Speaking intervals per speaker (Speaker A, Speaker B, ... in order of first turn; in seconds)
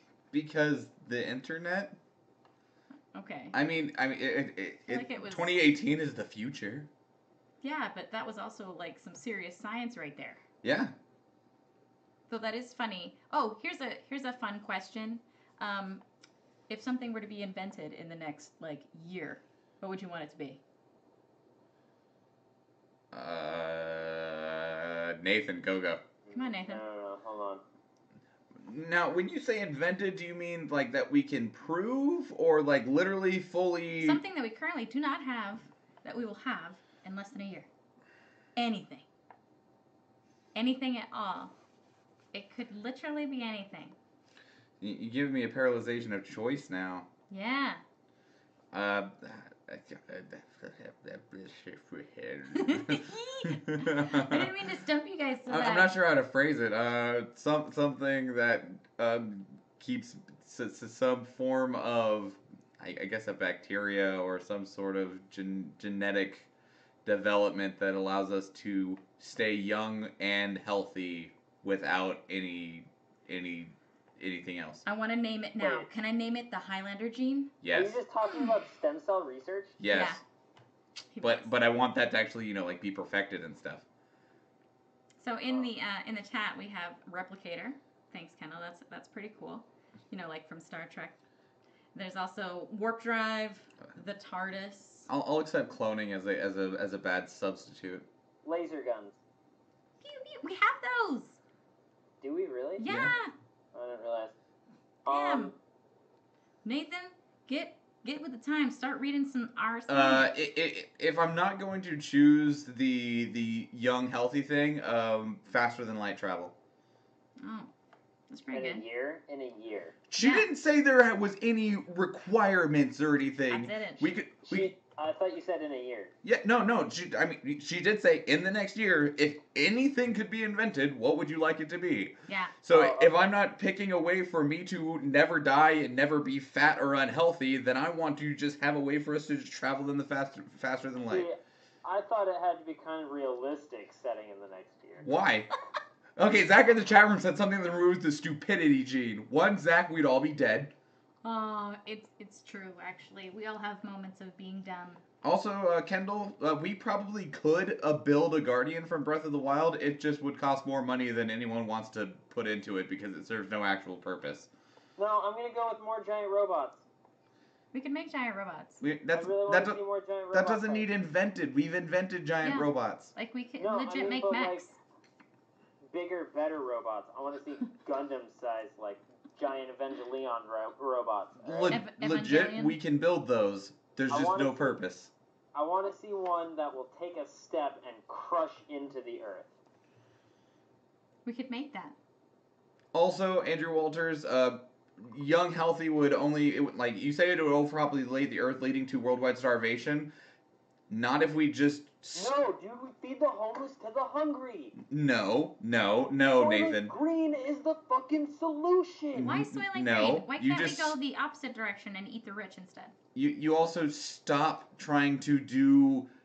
Speaker A: 0.3-2.0, 3.5-6.9, 10.6-10.9, 23.1-26.0, 28.6-34.2, 44.8-47.1, 48.7-54.5, 55.5-66.5, 67.0-74.8, 77.6-78.0, 79.8-80.2, 81.2-83.8, 95.1-98.0, 102.9-103.1, 109.9-116.5, 120.1-124.7, 126.2-141.3, 145.0-145.5, 146.2-150.7, 155.2-164.5, 168.8-169.8, 170.3-173.1, 181.4-185.1, 192.9-200.1, 200.9-202.3, 204.8-206.9, 209.2-210.9, 213.1-216.1
Speaker B: 3.1-3.6, 4.9-5.5, 7.6-10.4, 12.3-16.0, 16.7-20.6, 26.3-26.8, 34.0-37.7, 38.5-39.0, 40.5-41.5, 42.3-44.0, 47.3-47.8, 52.5-55.9, 74.8-77.5, 79.9-80.2, 81.1-81.6, 85.2-91.2, 91.9-95.1, 100.0-101.4, 102.8-103.3, 105.1-105.5, 106.6-110.3, 117.4-117.7, 118.3-118.8, 120.2-120.5, 123.5-124.1, 132.3-132.5, 151.2-155.0, 167.7-168.8, 172.4-174.8, 181.7-182.8, 191.2-191.9, 209.2-212.9
Speaker C: 26.2-27.6, 75.6-75.9, 77.7-79.7, 98.4-99.2, 102.2-102.8, 103.7-104.3, 105.0-105.5, 118.5-120.0, 124.4-126.1, 132.7-133.3, 141.1-145.1, 165.0-166.8, 169.1-170.9, 173.6-174.7, 175.9-181.8, 184.1-184.8, 185.5-189.5, 202.2-204.7, 206.3-209.3